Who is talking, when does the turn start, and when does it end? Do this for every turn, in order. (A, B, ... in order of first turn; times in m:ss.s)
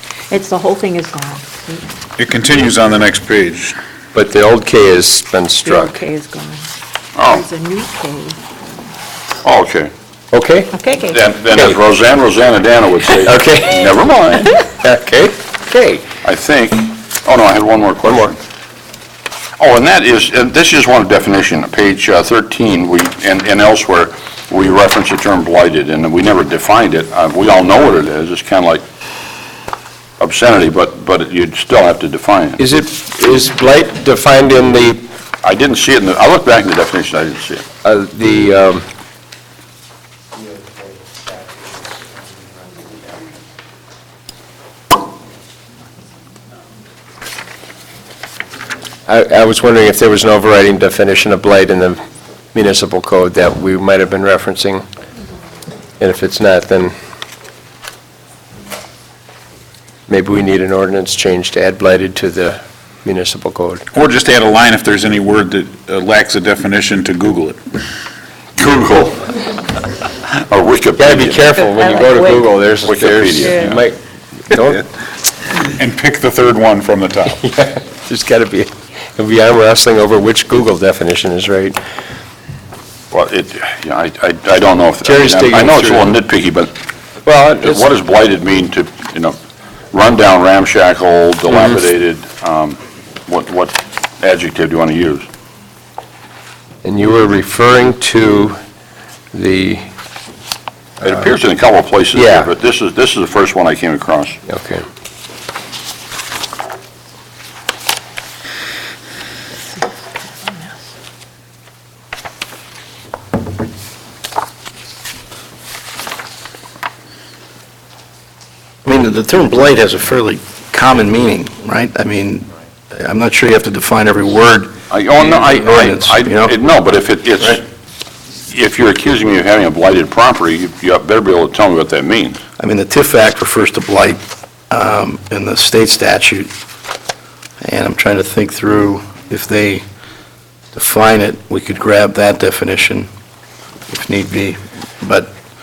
0:00.3-0:01.9 A
0:02.2-0:03.8 B
0:04.1-0:06.0 C
0:05.6-0:06.6 A
0:07.2-0:07.4 D
0:07.2-0:08.4 A
0:09.4-0:09.9 D
0:10.3-0:10.8 C
0:10.7-0:11.2 A
0:11.0-0:14.5 D
0:11.5-0:11.8 C
0:13.2-0:13.9 C
0:14.7-0:16.0 C
0:16.2-0:18.4 D
0:19.6-0:28.8 D
0:30.2-0:32.6 D
0:32.6-0:35.1 C
0:35.4-0:37.6 D
0:37.8-0:38.8 C
0:49.1-0:52.0 C
0:52.5-0:54.8 C
0:56.0-0:56.9 C
1:00.1-1:03.8 C
1:03.9-1:07.6 B
1:08.6-1:09.1 D
1:08.8-1:09.1 C
1:10.3-1:11.5 D
1:11.0-1:14.8 C
1:11.6-1:12.4 A
1:12.8-1:13.8 D
1:13.4-1:13.8 A
1:15.8-1:17.4 B
1:17.3-1:21.8 C
1:23.1-1:26.7 D
1:25.0-1:26.2 C
1:27.2-1:27.9 C
1:27.6-1:29.4 D
1:29.9-1:35.2 D
1:31.5-1:31.7 C
1:36.8-1:38.6 C
1:39.3-1:39.8 C
1:41.0-1:44.4 D
1:42.1-1:42.5 C
1:44.5-1:44.8 C
1:58.8-2:06.6 E
2:04.9-2:07.6 D
2:08.5-2:12.4 D
2:12.6-2:16.5 E
2:17.6-2:19.8 E
2:20.7-2:23.1 E
2:23.9-2:25.3 E